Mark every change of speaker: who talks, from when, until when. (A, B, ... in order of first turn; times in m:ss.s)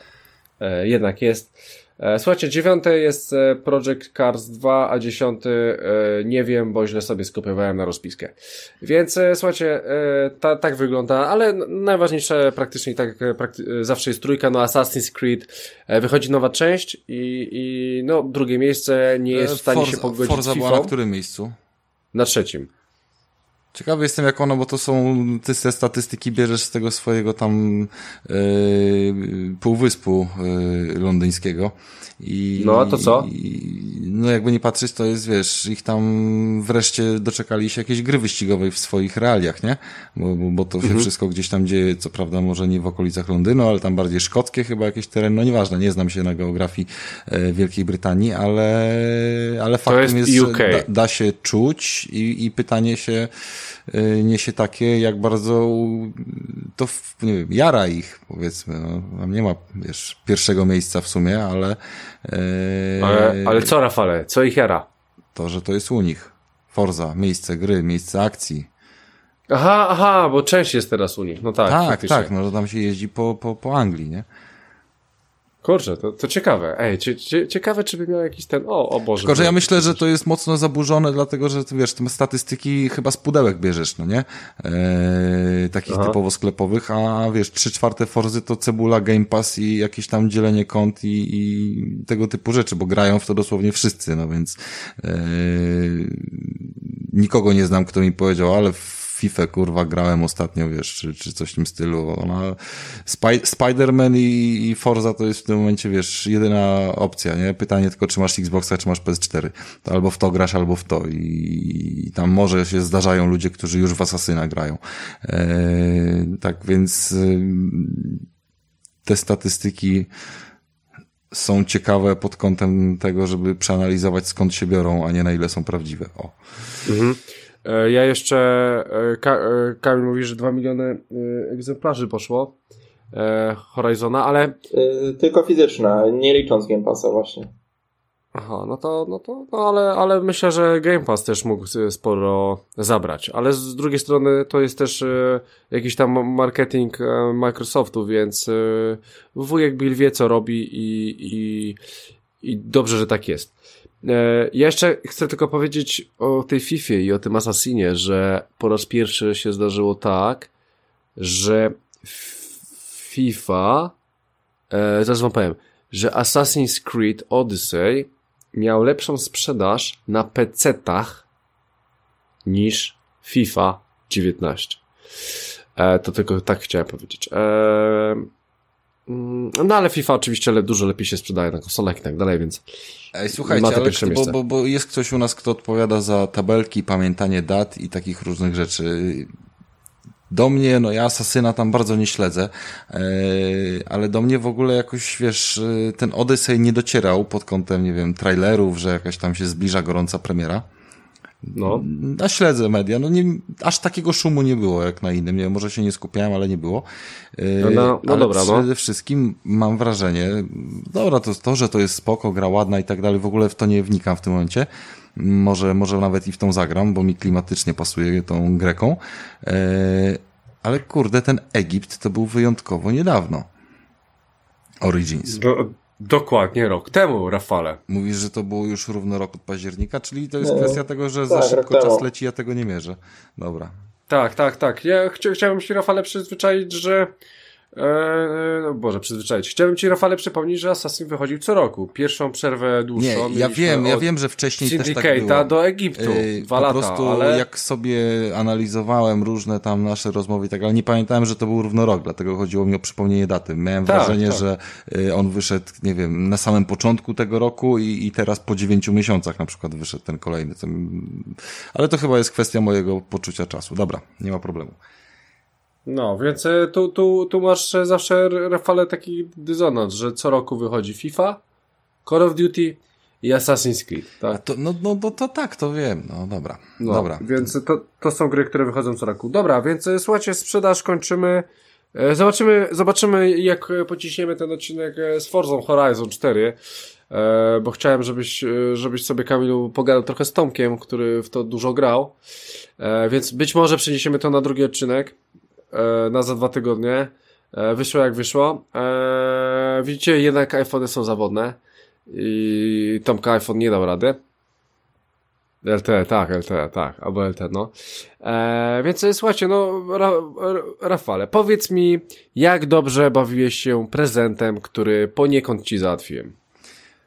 0:00.6-0:20.9 A
0:19.3-0:21.5 B
0:22.1-0:22.7 A
0:23.7-0:53.3 B
0:32.6-0:33.3 A
0:40.8-0:41.1 A
0:49.9-0:50.9 A
0:53.9-1:03.7 B
1:03.0-1:04.9 A
1:05.3-1:08.7 B
1:09.5-1:12.3 A
1:11.6-1:14.2 B
1:15.6-1:20.0 A
1:19.2-1:58.2 B
1:25.9-1:26.2 A
1:59.0-2:00.1 B
2:01.3-2:06.4 B
2:06.9-2:12.5 A
2:13.1-2:14.6 A
2:14.7-2:17.5 C
2:18.3-2:31.8 A
2:32.4-2:40.5 A
2:41.2-2:43.9 A
2:44.7-2:51.2 A
2:52.4-2:54.8 A
2:55.8-2:58.3 A
2:59.1-3:02.6 A
3:03.1-3:09.3 B
3:03.3-3:04.4 A
3:10.3-3:20.6 B
3:21.5-3:26.8 B
3:21.5-3:21.8 A
3:27.4-3:43.5 B
3:27.6-3:28.6 A
3:44.8-3:45.4 B
3:45.3-3:47.8 A
3:47.9-3:53.7 B
3:50.4-3:52.0 C
3:54.1-3:57.1 A
3:57.7-4:04.0 A
4:03.0-4:24.8 B
4:04.6-4:07.4 A
4:13.9-4:14.4 A
4:25.9-4:31.4 A
4:32.0-4:34.4 A
4:34.3-4:37.5 B
4:36.8-4:46.6 A
4:47.1-4:52.2 A
4:52.8-4:55.1 A
4:55.7-5:04.2 A
5:05.6-5:16.3 A